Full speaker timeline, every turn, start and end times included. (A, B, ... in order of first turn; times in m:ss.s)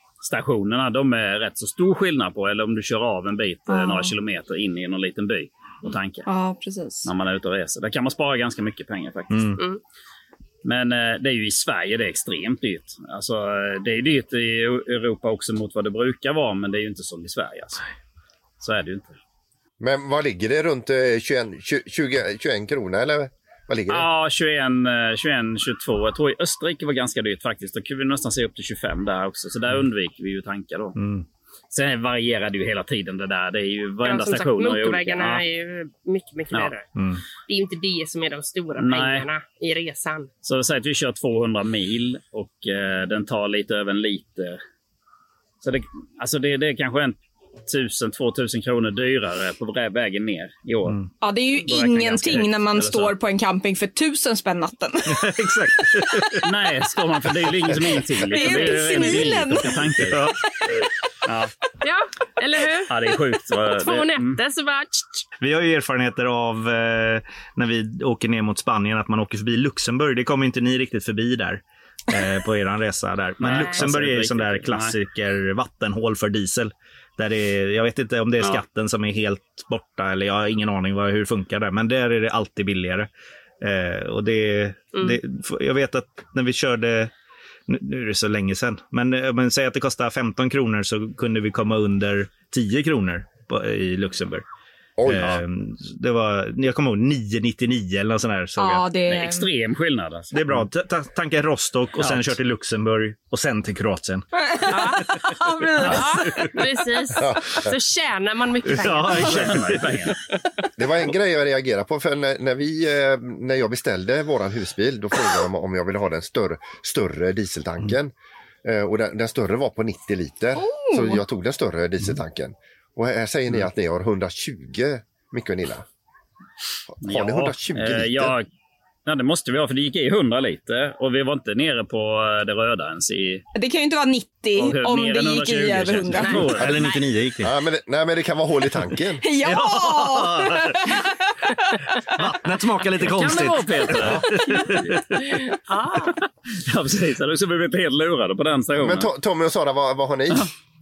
0:00.2-0:06.2 A
0:03.7-0:04.1 B
0:06.2-0:07.1 B
0:07.0-0:09.5 A
0:09.3-0:09.6 C
0:10.6-0:17.8 A
0:18.6-0:19.2 A
0:19.8-0:24.1 D
0:23.9-0:30.9 A
0:31.0-0:31.2 C
0:31.7-0:35.4 A
0:34.0-0:36.9 E
0:37.0-0:37.2 C
0:37.5-0:40.3 E
0:38.8-0:39.3 A
0:40.4-0:44.6 A
0:45.6-0:51.0 A
0:51.2-0:55.3 B
0:51.5-0:53.1 A
0:55.1-0:56.4 C
0:56.4-1:00.2 A
0:58.3-0:59.8 B
1:00.1-1:00.4 C
1:01.2-1:01.5 A
1:01.8-1:02.9 E
1:02.9-1:04.4 A
1:03.5-1:05.2 E
1:05.4-1:23.1 C
1:13.4-1:14.9 A
1:13.4-1:13.8 E
1:23.6-1:27.1 C
1:27.7-1:34.4 C
1:35.0-1:35.4 D
1:35.0-1:38.9 C
1:38.6-1:39.4 B
1:39.1-1:40.5 A
1:40.3-1:44.2 C
1:42.0-1:42.3 A
1:44.4-1:46.0 B
1:44.8-1:45.2 C
1:45.9-1:49.9 E
1:45.9-1:46.5 C
1:47.2-1:47.7 D
1:48.7-1:49.8 C
1:49.2-1:50.2 A
1:50.8-1:58.1 D
1:58.6-2:05.8 D
2:00.6-2:01.2 B
2:07.0-2:08.3 D
2:07.0-2:08.4 A
2:09.0-2:13.4 A
2:13.5-2:16.4 B
2:14.6-2:16.9 A
2:16.3-2:17.0 E
2:16.5-2:17.5 C
2:17.4-2:19.2 D
2:19.2-2:21.8 B
2:19.4-2:21.0 C
2:22.0-2:25.2 C
2:23.0-2:24.8 A
2:23.1-2:23.5 E
2:25.2-2:26.2 E
2:26.6-2:29.1 A
2:28.8-2:30.5 D